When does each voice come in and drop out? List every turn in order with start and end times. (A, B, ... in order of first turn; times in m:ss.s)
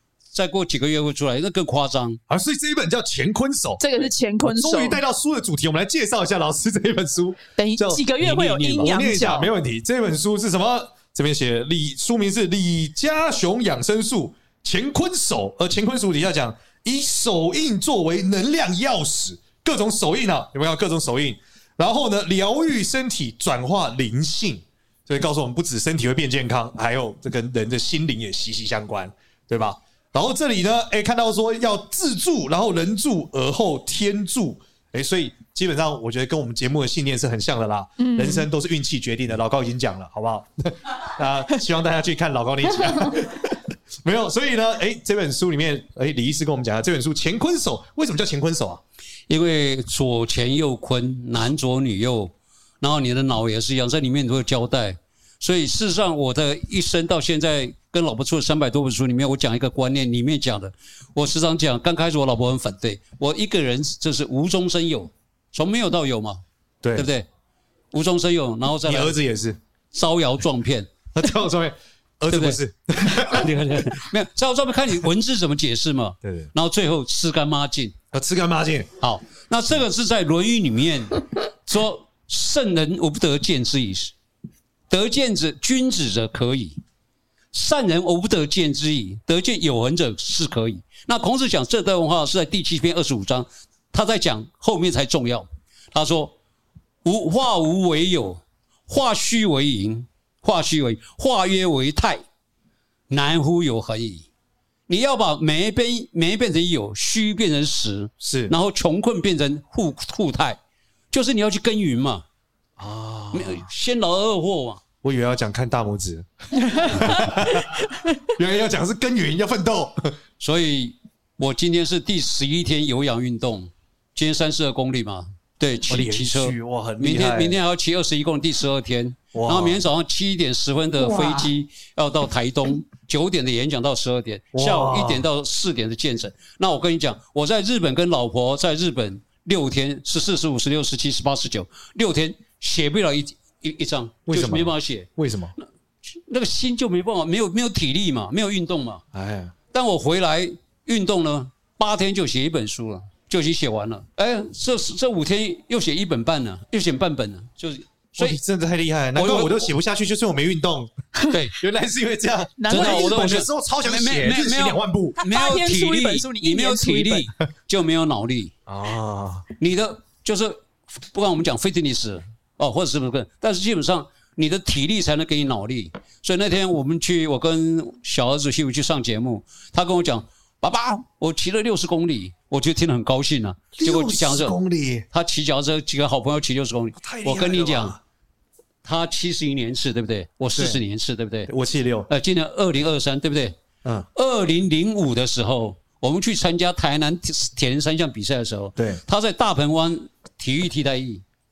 0:00.3-0:02.2 A
0:02.3-0:03.8 B
0:03.8-0:05.0 C
0:04.4-0:08.1 B
0:07.6-0:09.5 C
0:08.2-0:08.9 A
0:08.8-0:48.8 B
0:38.0-0:38.5 C
0:49.3-1:06.4 A
1:06.8-1:07.1 B
1:06.9-1:07.3 A
1:07.9-1:09.2 A
1:08.8-1:09.6 B
1:09.9-1:10.9 A
1:11.1-1:13.7 B
1:12.3-1:12.6 A
1:13.1-1:17.9 A
1:16.2-1:16.5 B
1:18.1-1:18.9 B
1:19.0-1:24.1 A
1:24.9-1:26.8 A
1:27.5-1:36.4 A
1:37.0-1:42.2 A
1:43.1-1:44.3 A
1:44.9-1:50.6 A
1:48.2-1:48.5 B
1:51.1-1:52.2 A
1:52.8-1:53.7 B
1:53.3-1:54.8 A
1:55.0-2:00.2 B
2:00.4-2:25.1 A
2:05.9-2:07.6 B
2:09.3-2:09.8 B
2:14.5-2:15.3 B
2:24.3-2:25.6 B
2:26.1-2:29.0 A
2:29.1-2:29.5 B
2:29.7-2:38.4 A
2:38.2-2:40.9 B
2:39.2-2:39.7 A
2:41.3-2:41.6 A
2:41.6-2:45.2 B
2:42.6-2:43.2 C
2:42.7-2:48.5 A
2:45.2-2:47.3 C
2:48.7-2:49.5 B
2:49.6-3:04.6 A
3:03.8-3:05.1 B
3:05.1-3:08.0 A
3:07.0-3:08.0 B
3:08.8-3:11.5 A
3:10.6-3:10.8 B
3:11.5-3:12.1 B
3:12.1-3:13.6 A
3:14.2-3:21.2 A